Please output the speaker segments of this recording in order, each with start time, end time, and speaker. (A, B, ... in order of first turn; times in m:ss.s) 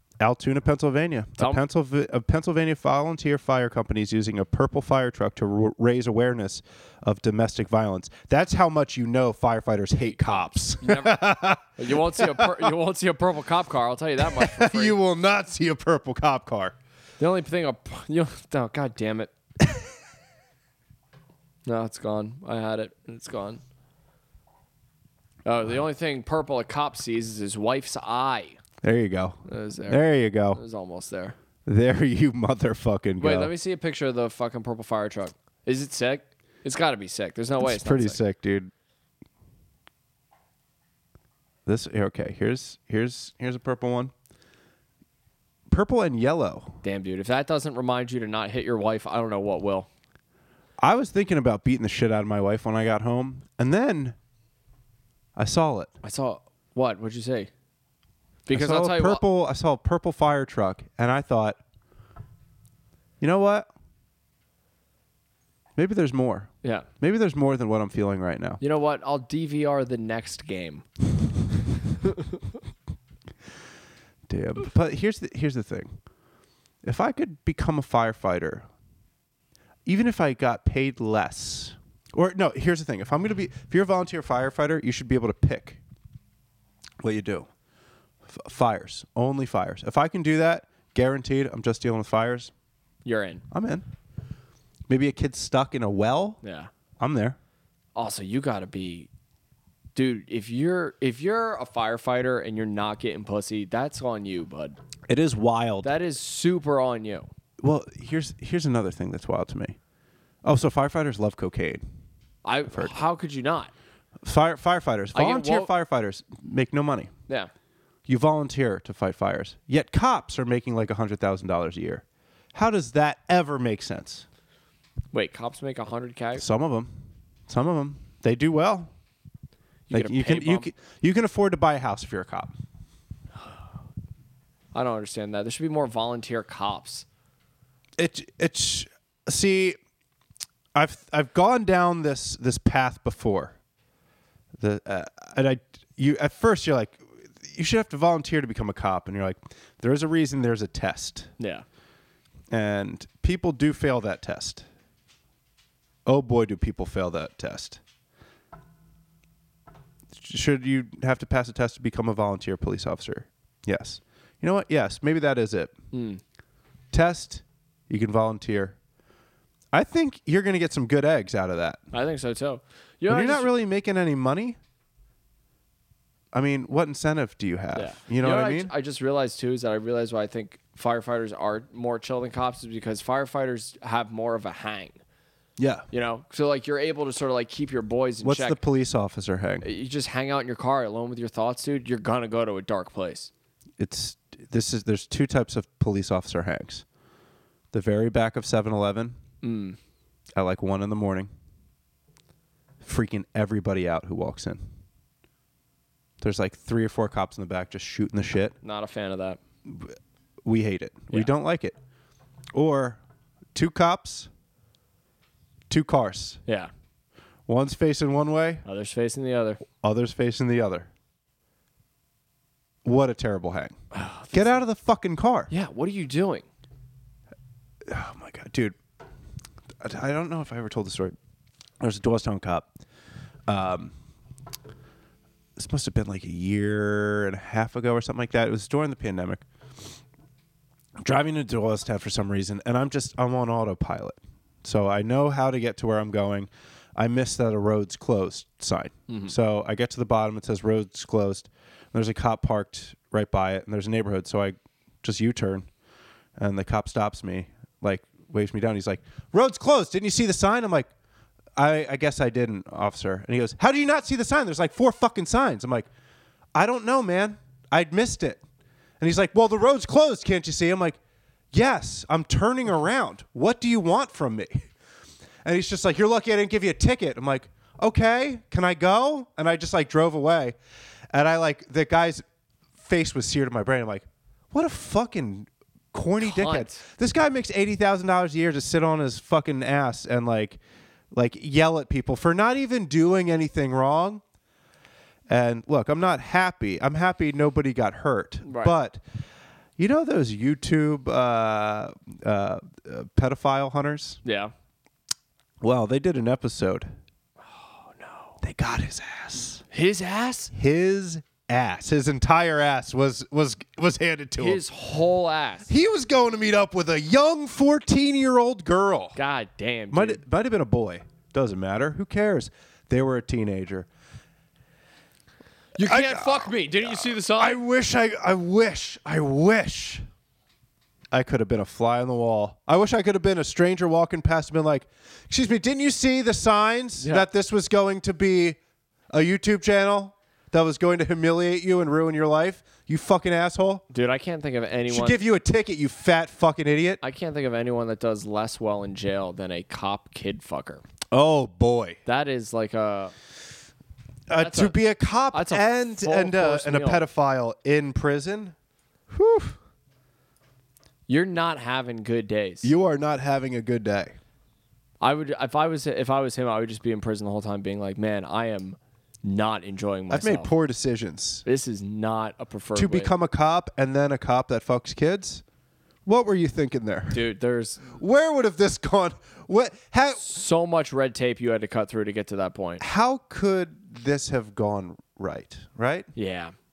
0:00.2-0:12.7 A
0:10.0-0:15.0 B
0:14.2-0:16.7 A
0:17.2-0:19.3 B
0:21.6-0:23.6 B
0:25.4-0:28.6 B
0:28.8-0:30.6 A
0:29.4-0:31.4 B
0:31.6-0:33.5 A
0:33.2-0:38.2 B
0:37.6-0:38.7 A
0:41.6-0:44.1 A
0:45.7-0:46.8 A
0:46.8-0:49.9 B
0:50.8-0:54.2 A
0:55.4-0:55.9 A
0:56.0-0:57.5 B
0:58.4-0:59.2 B
0:58.5-1:01.6 A
1:03.2-1:03.7 A
1:05.8-1:08.6 A
1:06.6-1:06.9 B
1:08.6-1:10.8 B
1:12.0-1:12.4 B
1:14.3-1:16.0 A
1:16.8-1:18.7 A
1:19.9-1:25.8 A
1:27.0-1:27.5 A
1:28.3-1:32.5 A
1:33.0-1:33.4 B
1:33.5-1:33.8 A
1:34.9-1:36.4 A
1:36.4-1:36.7 B
1:37.0-1:37.4 A
1:37.9-1:39.1 B
1:39.9-1:44.8 B
1:45.1-1:45.9 A
1:45.8-1:47.3 B
1:47.6-1:49.8 A
1:50.4-1:51.8 A
1:52.4-1:53.7 B
1:54.2-1:57.1 A
1:55.1-1:55.7 B
1:58.1-2:04.3 A
2:05.1-2:06.4 B
2:06.4-2:06.9 A
2:07.5-2:08.9 A
2:09.9-2:10.7 B
2:09.9-2:12.5 A
2:14.7-2:17.0 B
2:18.0-2:19.8 A
2:20.7-2:23.6 A
2:24.6-2:31.3 A
2:31.4-2:31.6 B
2:32.5-2:34.6 A
2:36.0-2:37.8 A
2:40.2-2:45.7 A
2:45.9-2:46.2 B
2:46.9-2:48.8 A
2:49.7-2:51.8 A
2:51.9-2:53.5 B
2:53.1-2:54.6 A
2:56.3-2:58.7 A
2:57.7-3:05.0 B
3:05.6-3:05.9 A
3:05.9-3:08.6 B
3:08.2-3:09.6 A
3:09.6-3:13.3 B
3:13.8-3:16.8 A
3:17.7-3:19.2 A
3:19.4-3:19.8 B
3:20.4-3:21.3 A
3:22.8-3:24.6 A
3:26.2-3:28.6 A
3:28.6-3:29.4 B
3:29.7-3:31.8 A
3:32.6-3:33.0 A
3:33.6-3:34.3 A
3:35.7-3:36.4 A
3:36.4-3:36.7 B
3:37.5-3:38.6 A
3:38.6-3:39.6 B
3:39.8-3:40.9 A
3:42.8-3:43.8 A
3:43.9-3:44.6 B
3:44.3-3:45.5 A
3:45.5-3:46.4 B
3:47.9-3:48.8 A
3:49.8-3:51.1 A
3:51.8-3:52.7 A
3:53.5-3:53.9 A
3:55.6-3:59.4 A
4:01.0-4:15.7 A
4:09.1-4:09.3 B
4:16.4-4:20.9 A
4:21.6-4:25.9 A
4:26.6-4:28.4 A
4:29.0-4:31.0 A
4:31.5-4:34.7 A
4:35.4-4:40.6 A
4:41.1-4:42.2 A
4:42.8-4:50.6 A
4:46.2-4:46.8 B
4:51.1-4:54.2 A
4:55.3-4:59.0 A
4:58.4-4:58.7 B
4:59.8-5:04.2 A
5:04.2-5:04.5 B
5:05.6-5:06.9 A
5:07.4-5:08.4 B
5:08.4-5:09.6 A
5:09.7-5:10.5 B
5:10.5-5:14.6 A
5:14.4-5:15.7 B
5:15.7-5:19.2 A
5:19.1-5:20.2 B
5:19.9-5:23.9 A
5:25.8-5:27.6 B
5:25.8-5:30.0 A
5:31.1-5:38.6 A
5:37.0-5:37.3 B
5:39.1-5:43.8 A
5:43.9-5:45.2 B
5:44.9-5:47.0 A
5:47.0-5:50.8 B
5:51.1-5:52.0 A
5:52.0-5:53.1 B
5:54.3-5:58.6 A
5:54.4-5:54.8 B
5:55.3-5:57.0 B
5:59.1-5:59.6 A
6:01.1-6:02.7 B
6:02.6-6:04.2 A
6:05.0-6:10.5 B
6:10.1-6:11.4 A
6:11.4-6:13.1 B
6:12.7-6:15.4 A
6:16.0-6:17.2 A
6:17.1-6:17.9 B
6:17.9-6:20.3 A
6:20.2-6:22.8 B
6:22.8-6:26.1 A
6:26.1-6:26.6 B